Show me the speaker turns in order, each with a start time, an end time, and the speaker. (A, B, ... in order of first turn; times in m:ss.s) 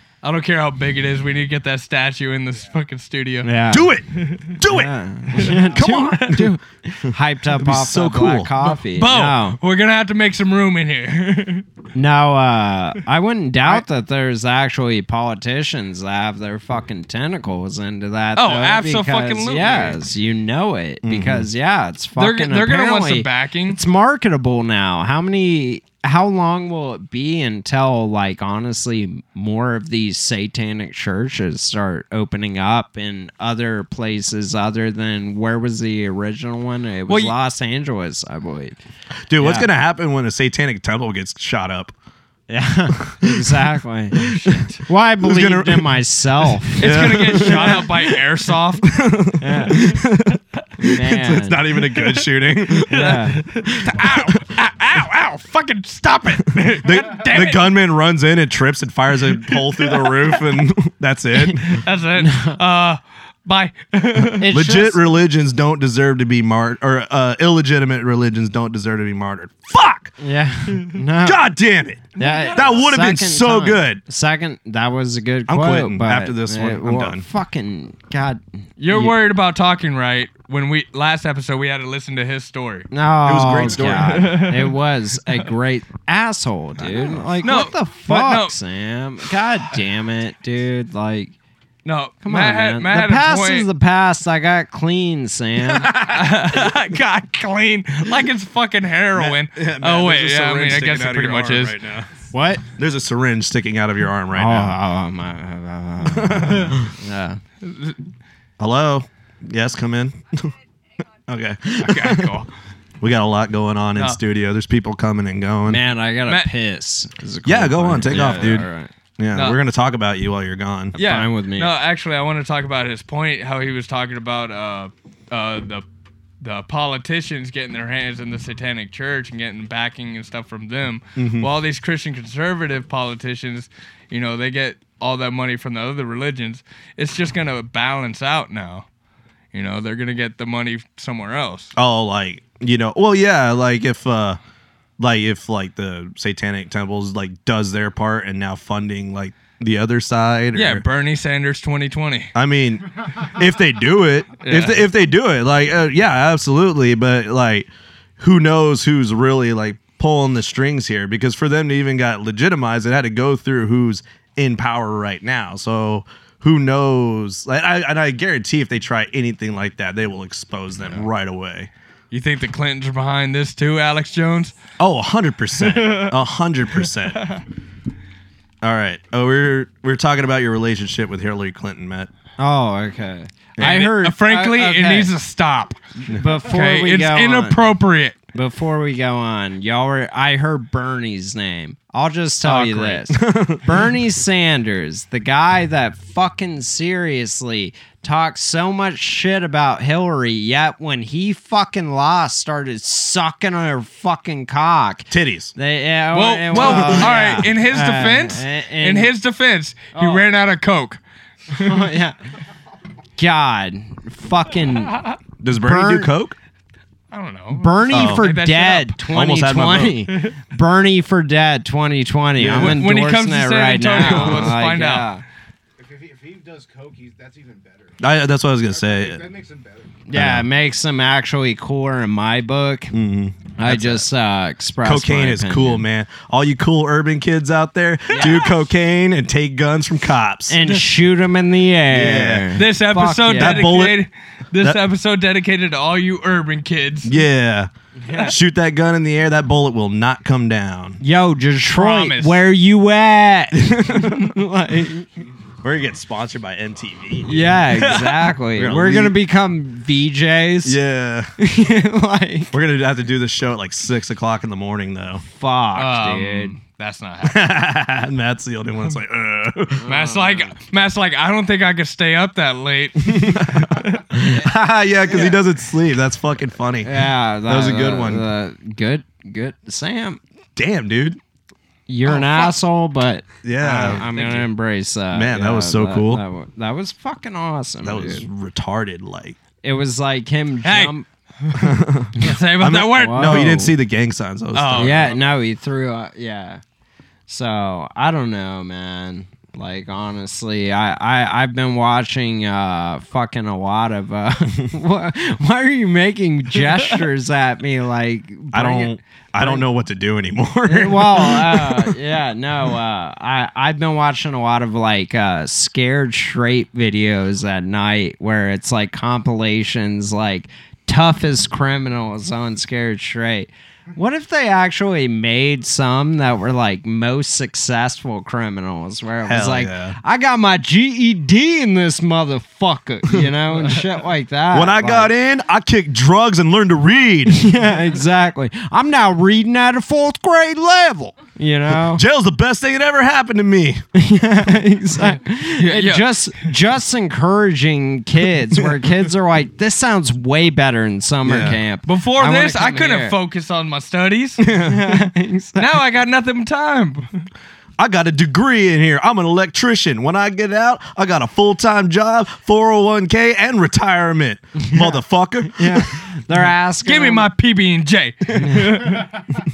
0:00.2-0:03.5 A
0:03.4-0:03.9 B
0:03.7-0:08.5 C
0:04.1-0:04.5 A
0:04.6-0:09.6 B
0:05.4-0:05.7 A
0:08.6-0:11.6 A
0:12.0-0:38.8 B
0:18.4-0:20.0 A
0:21.0-0:21.5 C
0:22.2-0:23.8 A
0:37.1-0:37.3 A
0:39.3-0:41.9 C
0:39.4-0:39.7 B
0:42.5-0:44.3 B
0:43.0-0:43.6 C
0:44.2-0:44.7 C
0:44.3-0:44.8 A
0:44.8-0:47.9 B
0:45.2-0:48.2 C
0:46.8-0:49.0 A
0:48.8-0:54.4 C
0:49.4-0:49.9 B
0:50.8-0:51.6 B
0:52.9-0:57.7 A
0:52.9-0:53.4 B
0:56.7-1:01.8 C
0:59.3-1:00.4 A
1:01.6-1:04.5 A
1:02.2-1:02.6 B
1:04.3-1:05.0 B
1:04.5-1:10.1 C
1:10.2-1:11.4 B
1:11.2-1:14.0 C
1:12.2-1:12.8 A
1:12.2-1:19.2 B
1:15.5-1:17.3 C
1:18.8-1:22.9 A
1:22.9-1:31.3 B
1:23.2-1:24.4 C
1:23.9-1:24.8 A
1:26.8-1:27.3 C
1:27.4-1:28.6 A
1:31.8-1:33.7 A
1:32.2-1:35.9 B
1:35.9-1:41.8 A
1:39.1-1:42.1 C
1:42.3-1:42.6 B
1:42.7-1:44.8 C
1:44.3-1:47.4 B
1:46.0-1:46.9 C
1:47.6-1:48.0 A
1:48.6-1:52.4 C
1:51.8-1:52.5 A
1:53.0-1:55.8 C
1:55.7-1:58.9 B
1:57.4-1:58.7 C
1:58.1-1:58.6 A
1:59.2-2:01.0 C
2:01.0-2:01.7 B
2:01.0-2:05.8 A
2:06.4-2:18.9 A
2:11.2-2:11.5 C
2:19.5-2:21.7 A
2:21.8-2:24.4 C
2:25.0-2:30.8 C
2:30.5-2:32.3 A
2:32.4-2:37.7 C
2:34.4-2:34.8 A
2:38.2-2:51.7 C
2:52.1-2:54.6 A
2:54.8-2:57.3 C
2:55.6-2:56.2 A
2:57.2-2:57.4 A
2:58.6-3:02.1 C
3:02.4-3:05.1 B
3:03.6-3:05.8 A
3:06.1-3:07.6 B
3:06.4-3:08.2 A
3:08.3-3:29.1 B
3:12.4-3:13.1 A
3:13.1-3:13.6 C
3:25.1-3:25.5 C
3:26.1-3:31.0 A
3:26.5-3:27.4 C
3:30.0-3:30.2 B
3:31.5-3:31.9 A
3:31.5-3:32.2 B
3:33.2-3:35.0 B
3:35.4-3:36.4 C
3:35.6-3:36.1 B
3:37.1-3:39.0 A
3:37.5-3:45.2 B
3:37.9-3:38.3 C
3:39.1-3:40.1 C
3:42.4-3:42.8 C
3:42.5-3:45.1 A
3:44.0-3:44.6 C
3:45.8-3:48.0 D
3:48.0-3:49.2 C
3:48.7-3:50.0 D
3:50.1-3:52.9 B
3:50.1-3:50.5 C
3:52.9-3:54.1 C
3:53.6-3:55.8 B
3:54.8-4:00.6 C
3:58.1-3:58.5 A
3:58.1-3:58.5 B
4:00.5-4:03.7 B
4:01.9-4:02.6 C
4:02.6-4:07.1 A
4:03.3-4:04.0 C
4:07.0-4:11.0 C
4:11.0-4:15.1 B
4:11.7-4:12.4 A
4:13.6-4:14.3 C
4:15.6-4:19.2 C
4:17.2-4:20.8 B
4:17.9-4:18.2 A
4:20.6-4:21.3 C
4:21.4-4:22.5 B
4:22.5-4:25.2 C
4:25.3-4:26.6 B
4:25.8-4:27.5 A
4:27.2-4:29.9 C
4:29.8-4:30.5 B
4:29.9-4:33.9 A
4:33.1-4:38.2 C
4:36.8-4:40.2 B
4:40.6-4:41.2 C
4:41.9-4:48.3 B
4:42.1-4:42.5 A
4:43.4-4:44.1 C
4:43.7-4:44.5 A
4:45.1-4:46.2 C
4:47.8-4:49.4 C
4:49.6-4:51.1 B
4:50.6-4:53.5 A
4:51.5-4:55.2 C
4:52.2-4:53.7 B
4:54.5-4:55.2 A
4:54.8-4:56.6 B
4:57.3-5:09.6 B
5:08.5-5:12.0 C
5:10.7-5:35.1 B
5:29.2-5:30.0 C
5:34.5-5:37.4 C
5:37.3-5:42.0 B
5:41.7-5:43.8 C
5:44.0-5:53.2 B
5:45.6-5:46.1 A
5:48.6-5:48.9 C
5:51.3-5:51.6 C
5:51.9-5:54.4 A
5:54.4-5:55.1 C
5:54.6-5:55.7 B
5:55.6-5:57.3 A
5:57.8-6:06.1 C
6:04.6-6:07.3 B
6:06.8-6:09.2 A
6:08.4-6:08.8 B